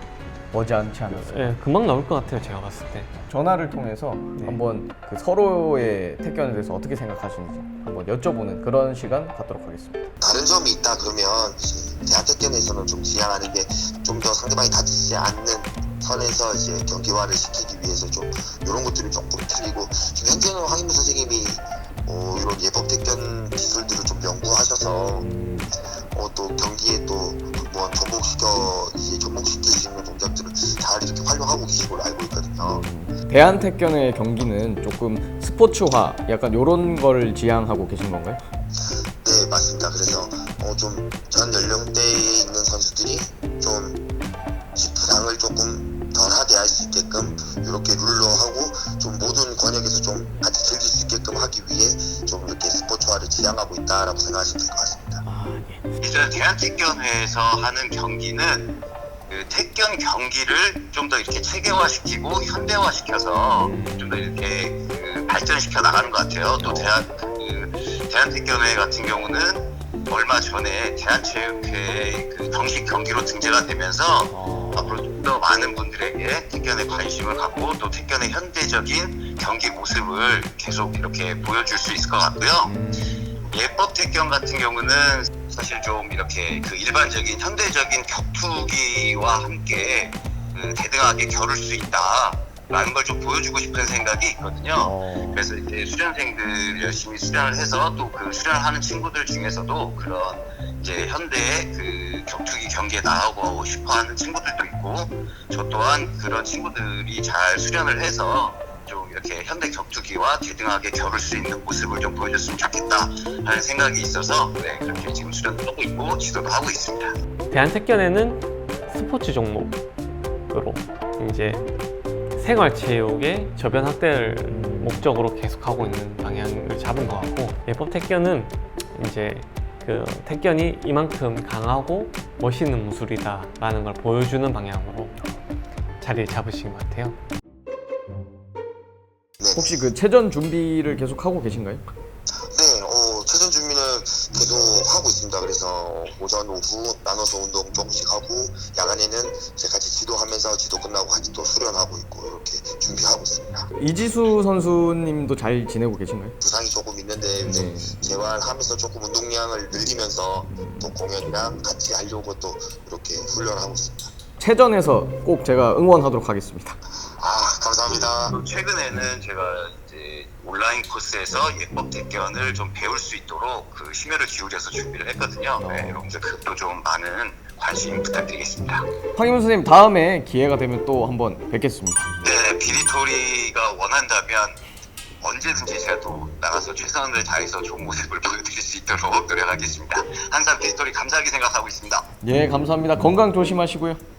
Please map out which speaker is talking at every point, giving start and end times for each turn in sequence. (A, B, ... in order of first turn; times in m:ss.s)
0:00.5-0:01.6 A
0:01.1-0:03.1 B
0:03.3-0:10.1 A
0:10.2-0:25.3 C
0:25.2-0:25.7 A
0:25.8-0:32.8 C
0:32.6-0:38.4 A
0:38.8-0:44.0 C
0:44.8-0:55.2 C
0:55.3-0:55.9 A
0:56.0-0:58.7 D
0:59.3-1:57.2 D
1:03.6-1:04.3 A
1:06.6-1:07.0 A
1:14.3-1:15.0 A
1:22.6-1:23.3 A
1:34.7-1:35.5 A
1:57.5-1:59.8 B
2:00.5-2:01.6 B
2:02.4-2:15.2 B
2:04.5-2:05.1 A
2:16.0-2:17.2 B
2:19.4-2:19.7 C
2:19.5-2:21.8 A
2:22.4-2:33.7 C
2:33.8-2:36.4 A
2:36.4-2:44.1 C
2:37.4-2:38.2 A
2:40.5-2:41.0 A
2:44.4-2:46.8 A
2:47.1-2:48.4 C
2:47.9-2:58.9 D
2:55.6-2:56.0 A
2:59.2-3:02.1 A
3:02.2-3:04.6 D
3:05.2-3:12.1 D
3:12.2-3:14.0 A